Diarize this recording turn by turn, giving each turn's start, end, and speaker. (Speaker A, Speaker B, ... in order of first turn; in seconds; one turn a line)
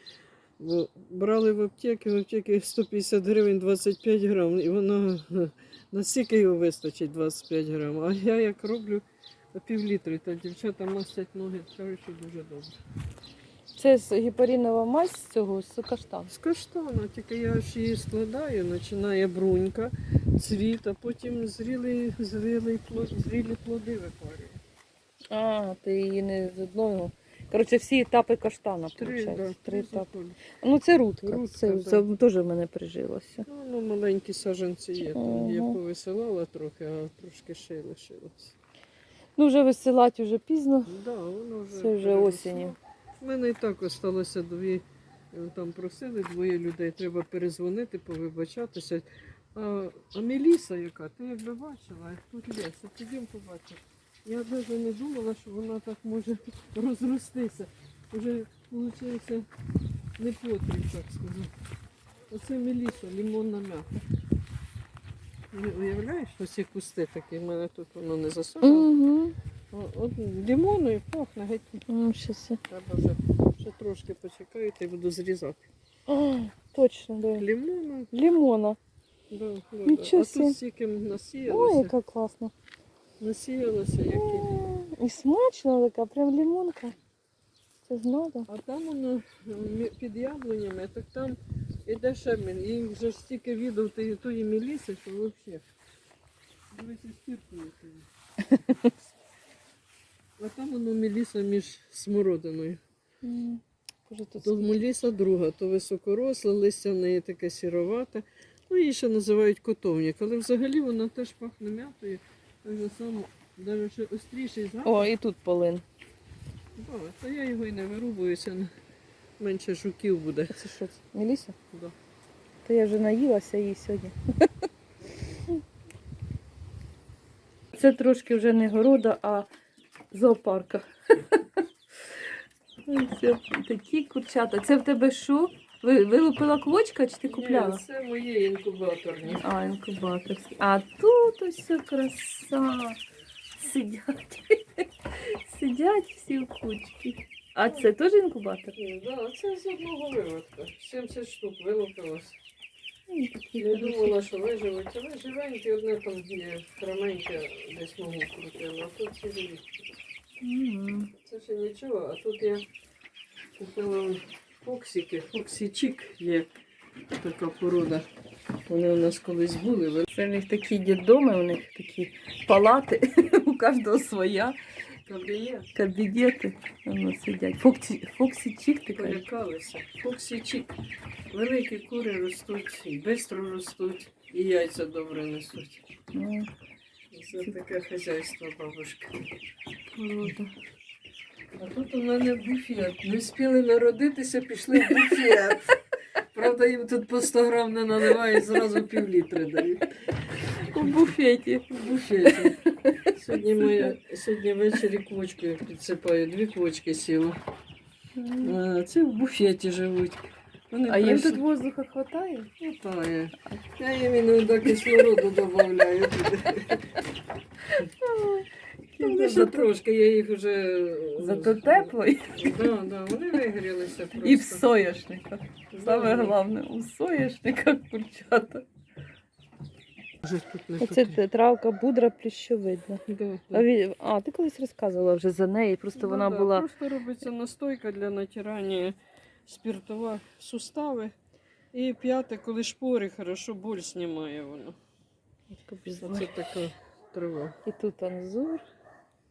Speaker A: 0.6-12.7
Speaker B: 13.7-16.3
Speaker A: 16.3-24.6
Speaker B: 25.3-30.1
Speaker A: 29.0-30.4
Speaker B: 30.6-33.5
Speaker A: 31.2-32.0
Speaker A: 33.5-38.5
Speaker B: 35.1-35.8
Speaker B: 39.4-40.9
Speaker A: 40.9-59.5
Speaker B: 41.7-42.7
Speaker A: 60.2-61.5
Speaker A: 62.3-64.0
Speaker A: 65.5-68.9
Speaker B: 68.6-69.3
Speaker A: 69.7-71.8
Speaker B: 71.9-72.6
Speaker A: 72.7-75.7
Speaker B: 76.1-77.4
Speaker A: 77.4-78.1
Speaker B: 78.1-78.8
Speaker A: 79.3-81.9
Speaker B: 79.8-80.6
Speaker B: 81.4-82.5
Speaker A: 83.2-84.5
Speaker B: 84.1-87.0
Speaker B: 87.8-88.5
Speaker A: 88.5-95.7
Speaker A: 96.7-98.1
Speaker B: 98.6-98.9
Speaker A: 100.4-102.8
Speaker B: 103.2-104.8
Speaker A: 104.4-115.1
Speaker B: 114.8-115.8
Speaker A: 116.8-118.7
Speaker A: 119.4-120.7
Speaker B: 120.5-121.5
Speaker B: 122.6-124.5
Speaker B: 127.7-129.5
Speaker B: 130.1-130.8
Speaker B: 132.8-137.8
Speaker A: 137.3-139.4
Speaker B: 139.3-143.0
Speaker B: 143.6-148.7
Speaker A: 148.8-152.3
Speaker B: 153.1-154.2
Speaker A: 153.6-159.6
Speaker B: 160.4-161.1
Speaker A: 161.2-162.6
Speaker A: 163.6-166.5
Speaker A: 167.1-168.1
Speaker A: 168.6-170.1
Speaker B: 170.1-174.6
Speaker A: 175.1-175.7
Speaker B: 175.7-179.2
Speaker A: 178.9-180.7
Speaker A: 181.3-185.8
Speaker B: 186.1-186.5
Speaker A: 187.1-189.2
Speaker B: 189.9-190.5
Speaker A: 191.6-195.8
Speaker A: 196.3-199.9
Speaker B: 200.4-203.1
Speaker A: 201.7-202.6
Speaker A: 203.1-207.3
Speaker B: 203.7-203.9
Speaker B: 208.2-208.6
Speaker A: 208.4-211.4
Speaker B: 210.9-212.5
Speaker A: 212.6-216.8
Speaker B: 214.8-215.1
Speaker B: 217.7-219.7
Speaker A: 219.0-224.7
Speaker B: 221.2-222.7
Speaker B: 224.2-228.6
Speaker A: 225.7-226.4
Speaker A: 230.2-231.2
Speaker B: 230.8-233.0
Speaker A: 233.1-233.7
Speaker B: 233.5-236.7
Speaker A: 235.9-241.1
Speaker A: 241.7-244.8
Speaker B: 245.5-246.5
Speaker A: 246.0-247.6
Speaker B: 247.7-248.6